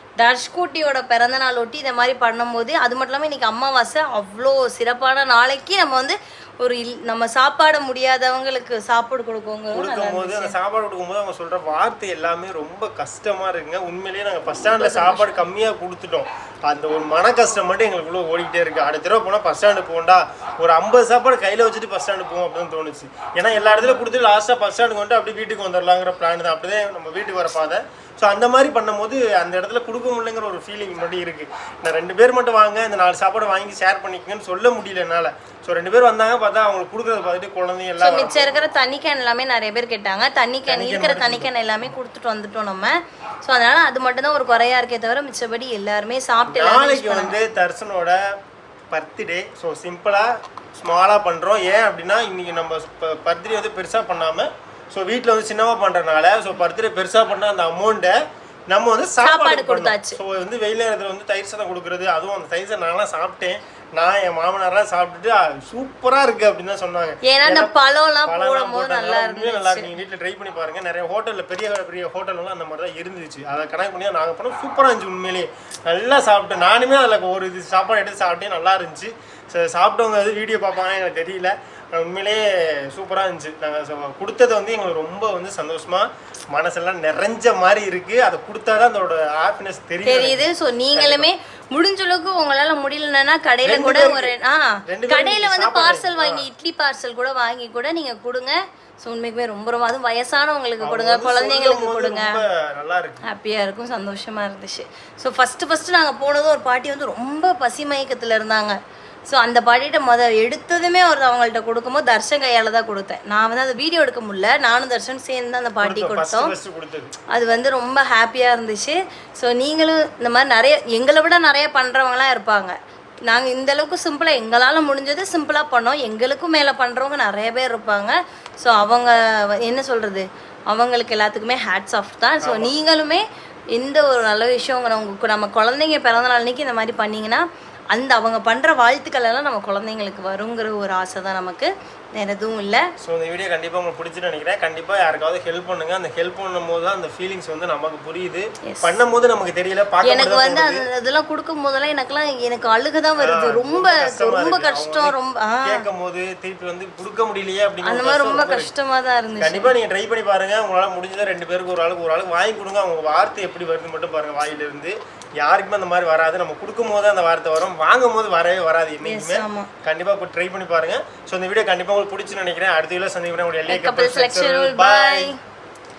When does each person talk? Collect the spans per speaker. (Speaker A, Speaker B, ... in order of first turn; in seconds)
Speaker A: 0.2-10.5, 14.8-15.4, 23.5-24.1, 38.0-47.4, 59.2-60.2, 67.2-69.9, 90.0-102.4, 103.2-116.5, 117.3-122.8, 123.3-133.2, 133.7-142.8, 148.7-149.0, 150.0-155.8, 157.8-159.7, 169.0-169.7, 173.7-175.3
Speaker B: 9.7-38.6, 40.6-41.5, 46.5-48.2, 48.9-58.1, 58.7-91.3, 93.6-94.3, 94.9-96.5, 100.8-103.2, 115.8-117.1, 132.4-132.8, 143.0-150.8, 153.2-158.7, 159.4-175.3